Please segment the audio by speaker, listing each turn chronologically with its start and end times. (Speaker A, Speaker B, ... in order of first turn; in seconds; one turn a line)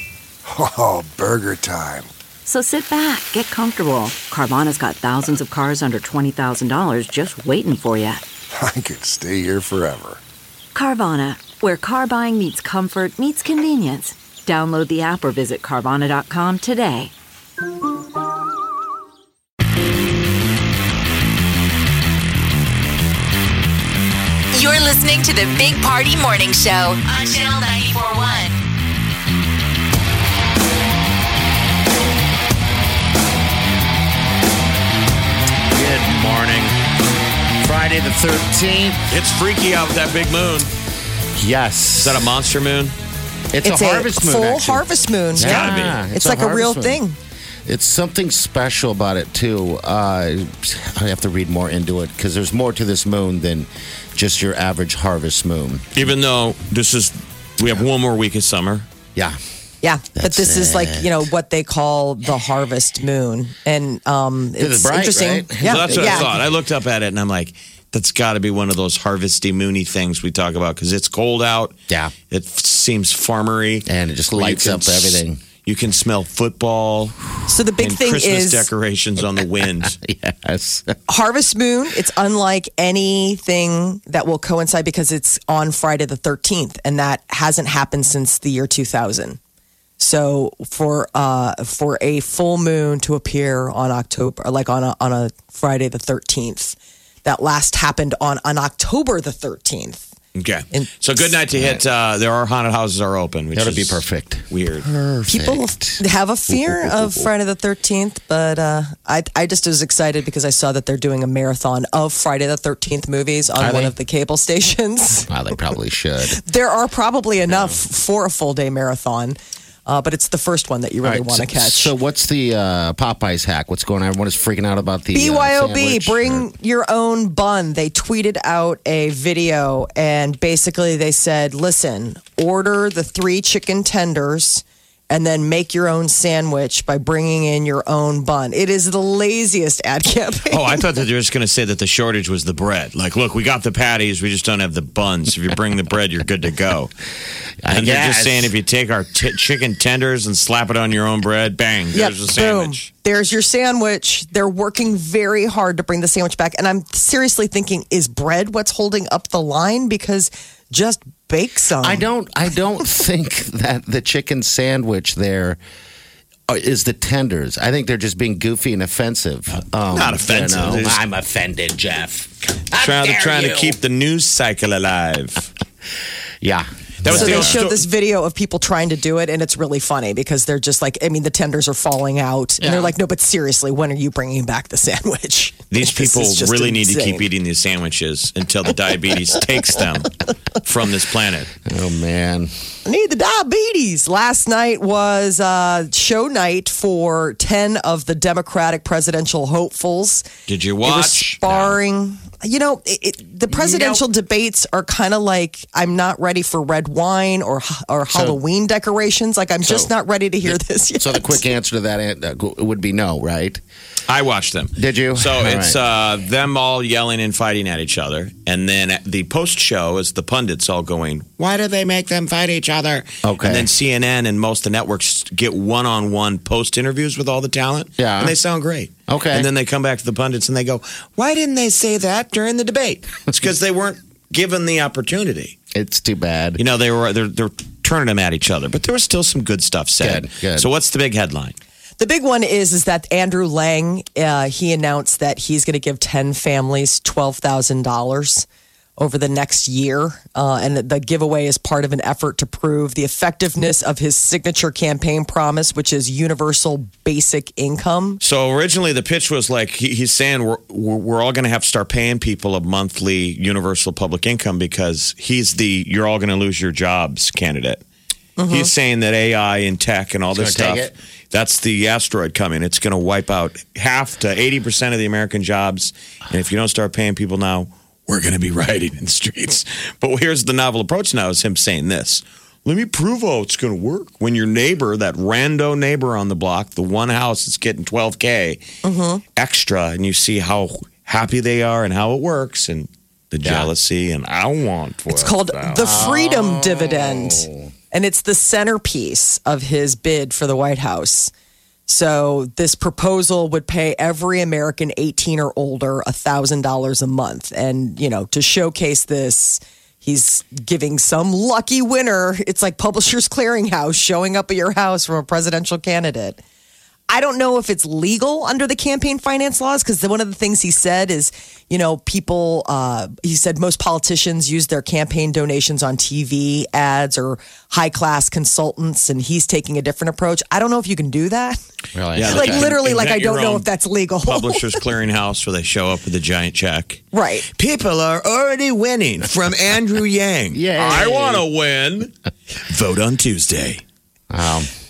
Speaker A: 0.5-2.1
Speaker B: 2.5-8.2
Speaker A: 8.5-10.2
Speaker B: 10.7-17.1
Speaker C: 24.5-28.6
Speaker D: 35.7-36.8
Speaker D: 37.6-39.1
Speaker E: 39.1-40.7
Speaker D: 41.4-42.3
Speaker E: 42.0-43.0
Speaker D: 43.5-47.0
Speaker F: 43.6-47.2
Speaker E: 45.4-46.0
Speaker D: 47.7-55.9
Speaker E: 55.9-58.9
Speaker F: 59.8-66.3
Speaker D: 60.2-61.2
Speaker D: 64.6-66.5
Speaker E: 65.6-71.8
Speaker D: 71.9-72.1
Speaker E: 72.3-77.2
Speaker D: 73.9-75.4
Speaker F: 77.5-78.7
Speaker E: 77.8-80.0
Speaker D: 79.2-81.0
Speaker F: 81.1-89.4
Speaker F: 90.0-100.0
Speaker E: 100.3-104.9
Speaker D: 101.6-101.8
Speaker D: 103.5-107.3
Speaker F: 105.3-115.3
Speaker D: 113.6-113.9
Speaker D: 115.3-116.4
Speaker F: 116.4-121.9
Speaker D: 117.5-117.8
Speaker D: 121.0-126.5
Speaker F: 125.1-140.8
Speaker E: 140.5-146.9
Speaker D: 147.6-148.5
Speaker E: 147.7-152.9
Speaker F: 151.9-162.1
Speaker D: 161.8-165.6
Speaker D: 166.5-173.8
Speaker E: 169.9-171.0
Speaker E: 172.7-175.5
Speaker D: 176.4-177.6
Speaker E: 177.0-177.8
Speaker F: 177.1-187.2
Speaker D: 182.6-182.9
Speaker E: 185.7-190.1
Speaker E: 190.6-191.6
Speaker D: 191.7-192.5
Speaker F: 192.8-200.3
Speaker E: 200.5-201.8
Speaker F: 200.8-211.4
Speaker D: 203.5-204.1
Speaker D: 208.1-208.4
Speaker D: 209.6-209.9
Speaker D: 210.4-213.6
Speaker E: 214.1-235.6
Speaker D: 214.8-215.8
Speaker D: 223.2-223.7
Speaker D: 228.0-228.4
Speaker D: 229.1-229.5
Speaker D: 235.7-236.6
Speaker E: 236.6-241.6
Speaker D: 240.0-240.7
Speaker F: 242.0-258.2
Speaker E: 258.2-267.8
Speaker F: 268.4-268.7
Speaker E: 268.5-288.6
Speaker D: 270.3-270.9
Speaker F: 288.8-289.2
Speaker E: 289.4-296.0
Speaker D: 293.4-293.7
Speaker F: 295.1-301.3
Speaker D: 295.7-297.7
Speaker F: 301.9-316.4
Speaker F: 317.1-331.6
Speaker D: 331.9-332.7
Speaker E: 332.1-333.7
Speaker F: 332.2-334.6
Speaker E: 334.2-343.8
Speaker F: 337.1-337.5
Speaker D: 340.5-341.5
Speaker D: 344.3-344.7